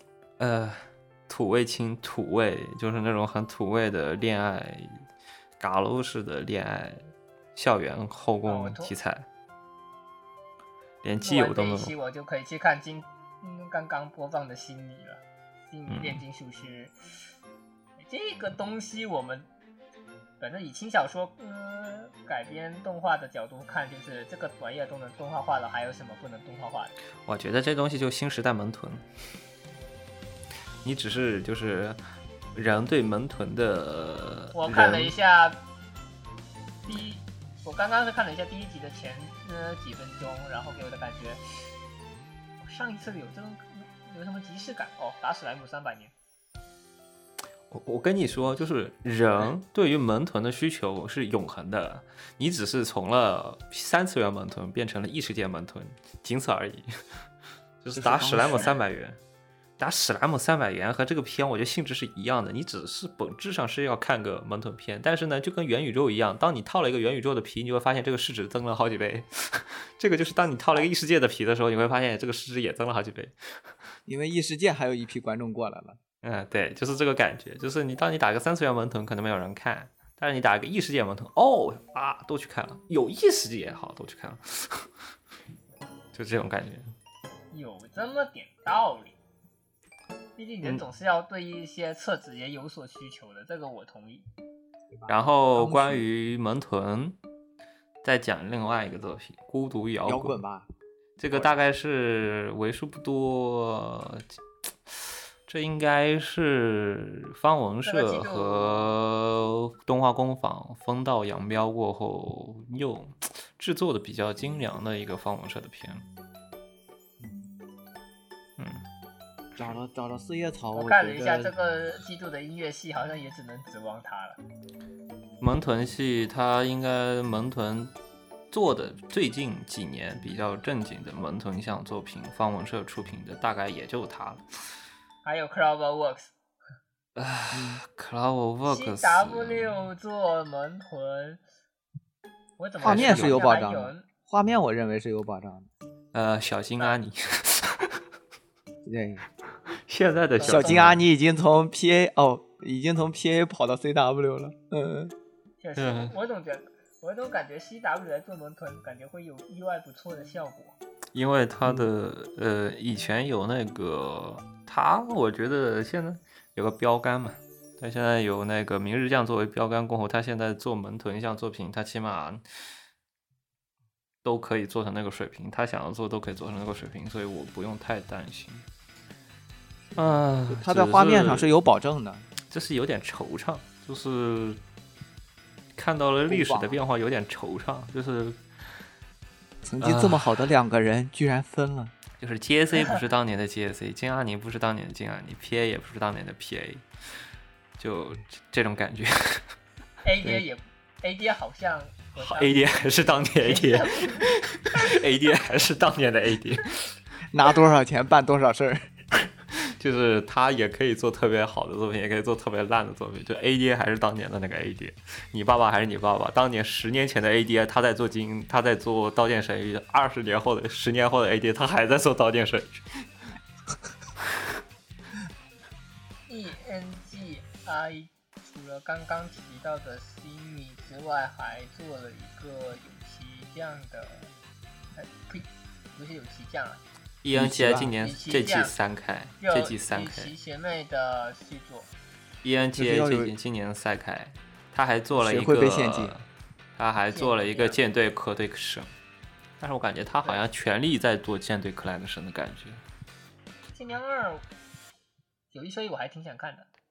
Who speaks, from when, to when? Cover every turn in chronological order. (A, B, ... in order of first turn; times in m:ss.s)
0:00.4-0:05.0 A
0:05.6-0:07.0 A
0:07.6-0:09.3 A
0:08.5-0:08.9 B
0:11.0-0:11.9 A
0:11.2-0:17.0 B
0:15.9-0:16.2 A
0:18.0-0:19.5 B
0:20.4-0:26.9 B
0:27.3-0:29.0 A
0:30.8-0:32.0 A
0:32.6-0:35.1 A
0:34.5-0:35.6 B
0:36.9-0:41.4 B
0:42.6-0:46.1 B
0:47.7-0:56.9 A
0:57.8-0:59.2 A
0:57.9-0:58.8 C
0:59.8-1:13.7 A
1:14.1-1:16.0 C
1:16.2-1:24.9 A
1:26.1-1:26.9 A
1:27.5-1:29.2 B
1:30.4-1:34.3 B
1:34.9-1:36.0 C
1:35.1-1:37.2 A
1:38.0-1:40.4 A
1:40.0-1:40.7 C
1:41.2-1:44.3 A
1:41.3-1:41.6 C
1:44.9-1:56.0 A
1:47.8-1:48.9 B
1:57.2-1:57.5 C
1:58.6-1:58.8 A
1:59.6-2:01.5 C
2:00.7-2:04.4 B
2:05.4-2:07.9 A
2:08.5-2:14.4 A
2:15.2-2:16.3 B
2:17.2-2:19.8 A
2:17.5-2:17.8 C
2:18.7-2:21.4 B
2:22.6-2:24.0 B
2:22.8-2:23.4 A
2:22.8-2:25.7 C
2:26.1-2:28.0 A
2:28.8-2:29.3 C
2:29.9-2:31.0 A
2:30.4-2:30.9 B
2:30.4-2:35.1 C
2:35.6-2:40.8 B
2:35.8-2:36.1 A
2:41.1-2:52.4 A
2:54.2-2:58.6 A
3:00.0-3:01.5 A
3:00.0-3:02.3 C
3:02.5-3:04.6 A
3:05.8-3:08.4 A
3:06.3-3:06.8 C
3:09.6-3:11.9 C
3:09.8-3:10.4 A
3:12.2-3:16.8 A
3:17.8-3:19.4 A
3:20.0-3:22.6 B
3:22.2-3:26.9 A
3:23.4-3:25.0 B
3:27.3-3:28.9 C
3:29.5-3:43.1 A
3:46.3-3:54.3 B
3:55.0-3:56.8 B
3:57.2-4:00.3 A
3:57.3-3:58.0 C
3:58.0-3:58.7 B
3:59.4-4:01.9 B
4:02.4-4:08.9 A
4:02.8-4:03.3 C
4:05.1-4:06.1 C
4:07.1-4:07.8 B
4:09.6-4:12.8 A
4:13.7-4:14.5 B
4:15.5-4:16.7 B